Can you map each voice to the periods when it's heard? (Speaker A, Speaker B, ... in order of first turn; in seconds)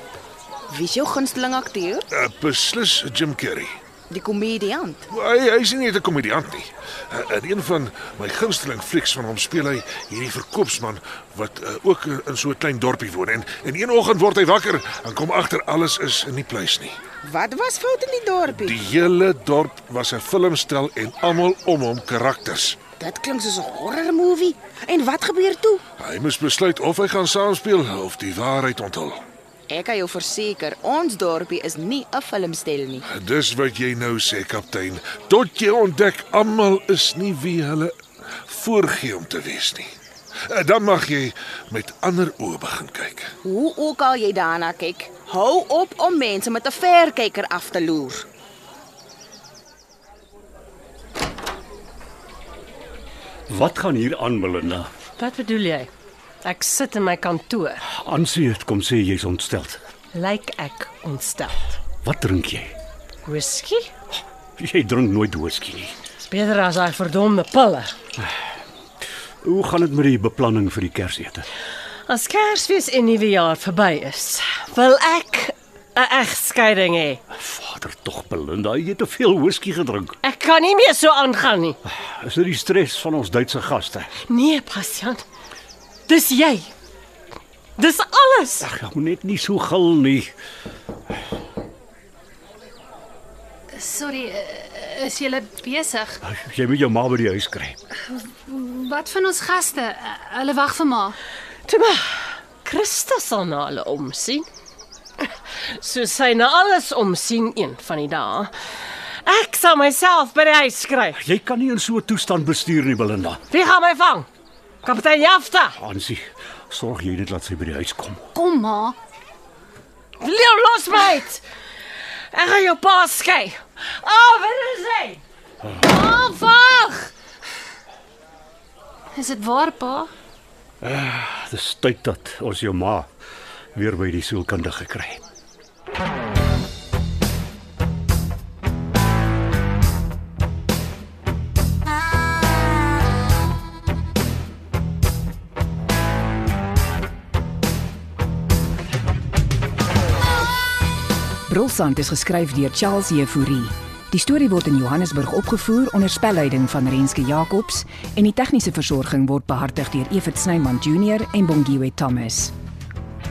Speaker A: 0.7-2.0, 4.1-5.0, 17.2-18.8, 23.0-25.8, 29.7-33.0, 43.4-48.2
Speaker B: 2.1-3.8, 5.1-17.0, 18.5-22.8, 26.0-29.2, 33.0-39.9, 40.5-43.3
Speaker C: 53.5-54.9, 57.9-59.8, 62.0-62.7, 64.6-65.9, 69.4-71.5, 77.3-80.2, 81.9-84.1, 88.6-90.3, 96.2-97.8, 111.2-113.4, 115.8-118.3, 130.8-133.1, 133.7-135.2
Speaker D: 55.2-55.9, 56.4-57.9, 60.1-61.8, 63.2-63.9, 66.2-67.9, 72.1-77.2, 80.2-81.8, 84.3-85.2, 86.1-86.7, 87.8-88.7, 101.6-104.5, 105.2-108.5, 109.2-111.2, 113.5-114.3, 114.8-115.8, 120.2-121.4, 122.0-125.2, 126.1-127.0
Speaker E: 93.7-96.2, 98.1-101.2, 118.3-119.0, 125.8-126.9, 129.1-130.1
Speaker F: 151.4-162.5